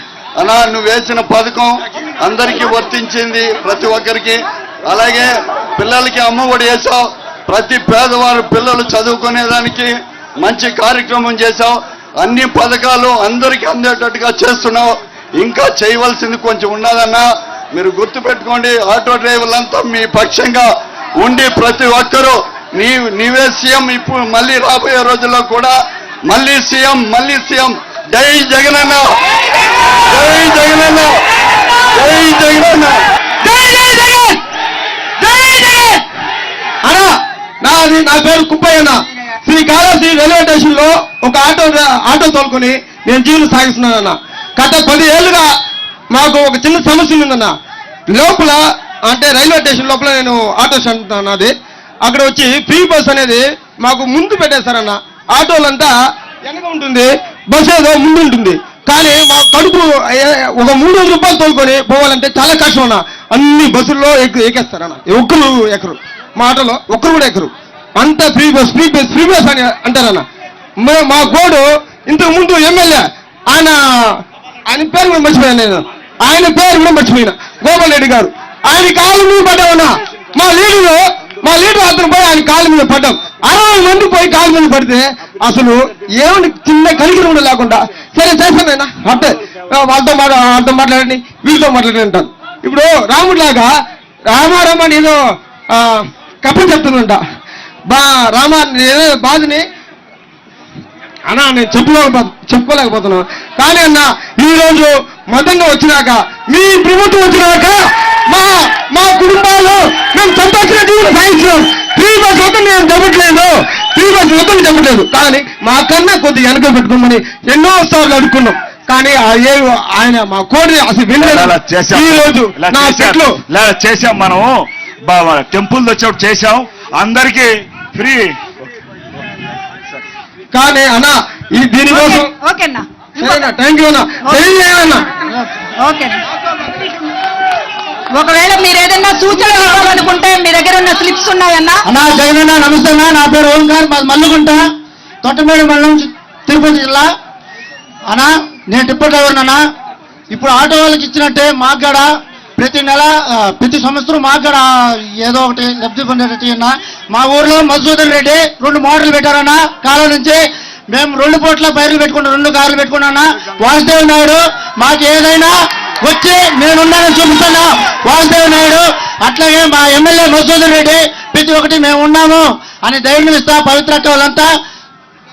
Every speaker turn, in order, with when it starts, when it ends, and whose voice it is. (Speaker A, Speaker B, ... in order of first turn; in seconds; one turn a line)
Speaker A: 0.4-20.7
Speaker A: 21.2-25.7
Speaker A: 26.3-29.1
Speaker A: 30.1-31.1
Speaker A: 31.9-33.0
Speaker B: 33.4-34.4
Speaker B: 35.2-36.0
Speaker B: 36.8-37.1
Speaker B: 37.6-38.9
Speaker B: 39.5-45.5
Speaker B: 46.1-47.5
Speaker B: 48.1-51.5
Speaker B: 52.0-55.9
Speaker B: 56.5-70.2
Speaker B: 70.8-73.8
Speaker B: 74.7-93.7
Speaker B: 94.3-95.2
Speaker B: 95.7-97.2
Speaker B: 97.9-99.6
Speaker B: 101.3-107.8
Speaker B: 108.3-123.4
Speaker C: 121.1-128.4
Speaker B: 130.5-132.3
Speaker D: 131.9-133.5
Speaker B: 133.2-135.0
Speaker D: 135.8-136.2
Speaker D: 138.1-141.8
Speaker E: 141.9-144.6
Speaker E: 145.2-147.1
Speaker E: 148.1-149.6
Speaker E: 150.3-154.7
Speaker E: 155.2-165.5
Speaker E: 166.0-174.5